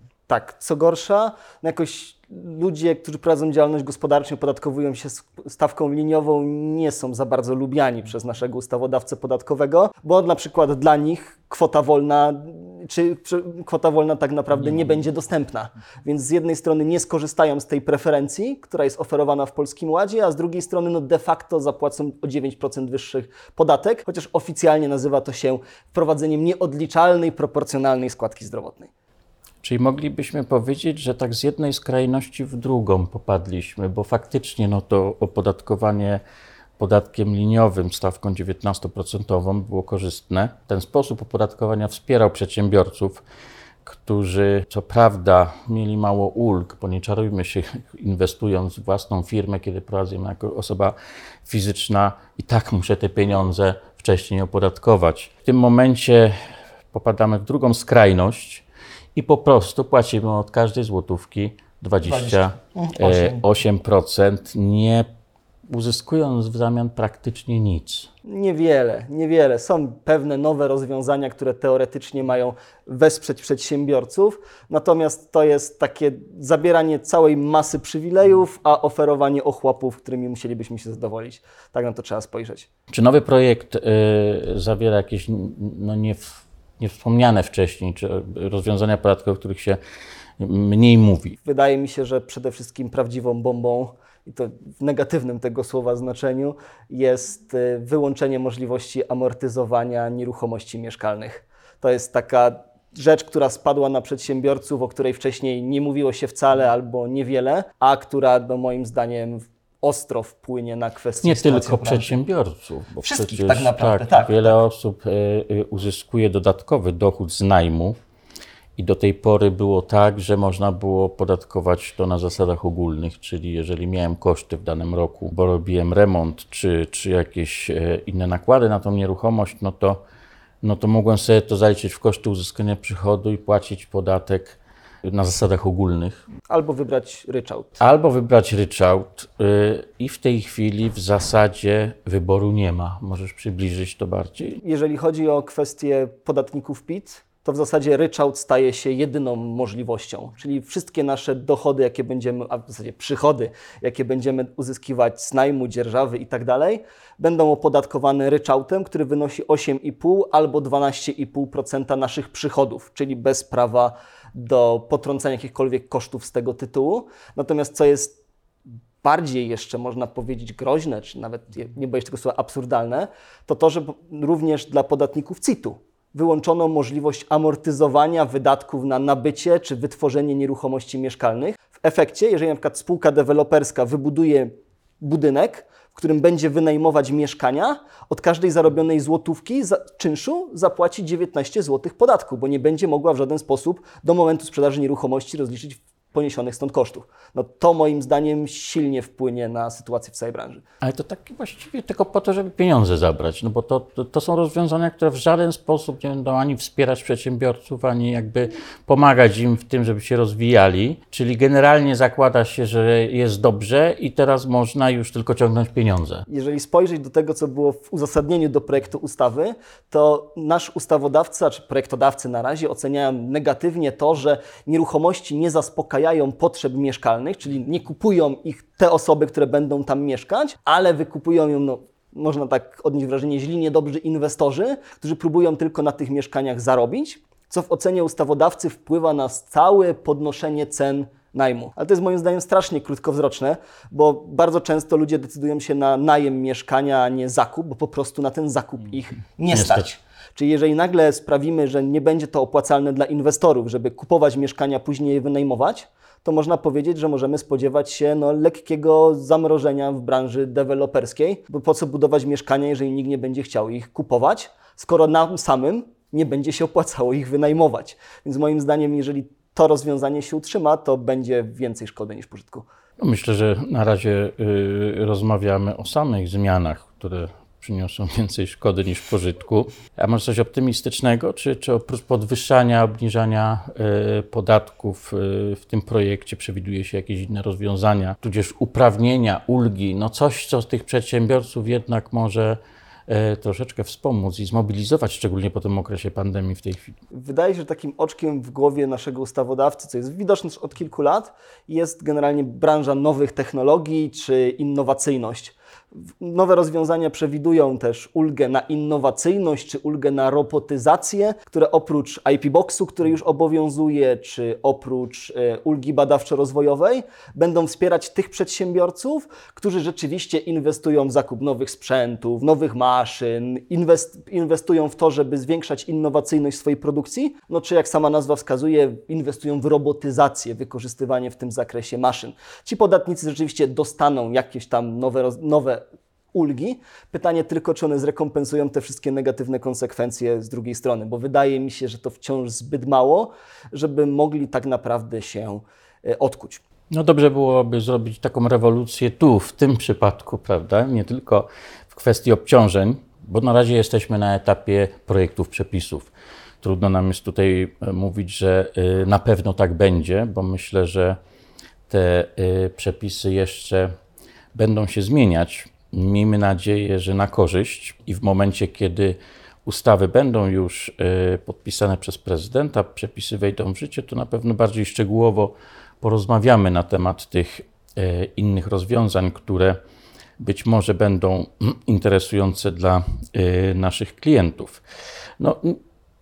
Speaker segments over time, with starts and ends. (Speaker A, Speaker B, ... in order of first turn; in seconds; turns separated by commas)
Speaker A: 0.3-28.9, Speaker B: 29.6-36.2, Speaker B: 36.8-43.2, Speaker B: 43.8-56.4, Speaker B: 56.9-58.6, Speaker B: 59.1-65.1, Speaker A: 62.0-63.4, Speaker B: 65.7-68.1, Speaker A: 68.2-82.7, Speaker B: 82.9-89.8, Speaker B: 90.4-91.4, Speaker A: 91.4-112.2, Speaker B: 111.2-118.0, Speaker A: 113.0-114.6, Speaker B: 118.8-130.0, Speaker B: 130.6-136.2, Speaker A: 136.5-137.8, Speaker B: 137.8-144.6, Speaker A: 144.6-168.2, Speaker A: 169.0-200.6, Speaker B: 200.8-216.2, Speaker A: 216.3-272.7, Speaker B: 249.5-249.8, Speaker B: 273.0-297.0, Speaker A: 297.1-305.6, Speaker A: 306.1-335.8, Speaker A: 336.3-346.6, Speaker B: 346.9-356.1, Speaker B: 356.6-361.2, Speaker B: 361.9-363.9, Speaker B: 364.5-379.8, Speaker B: 380.4-384.8, Speaker B: 385.4-385.8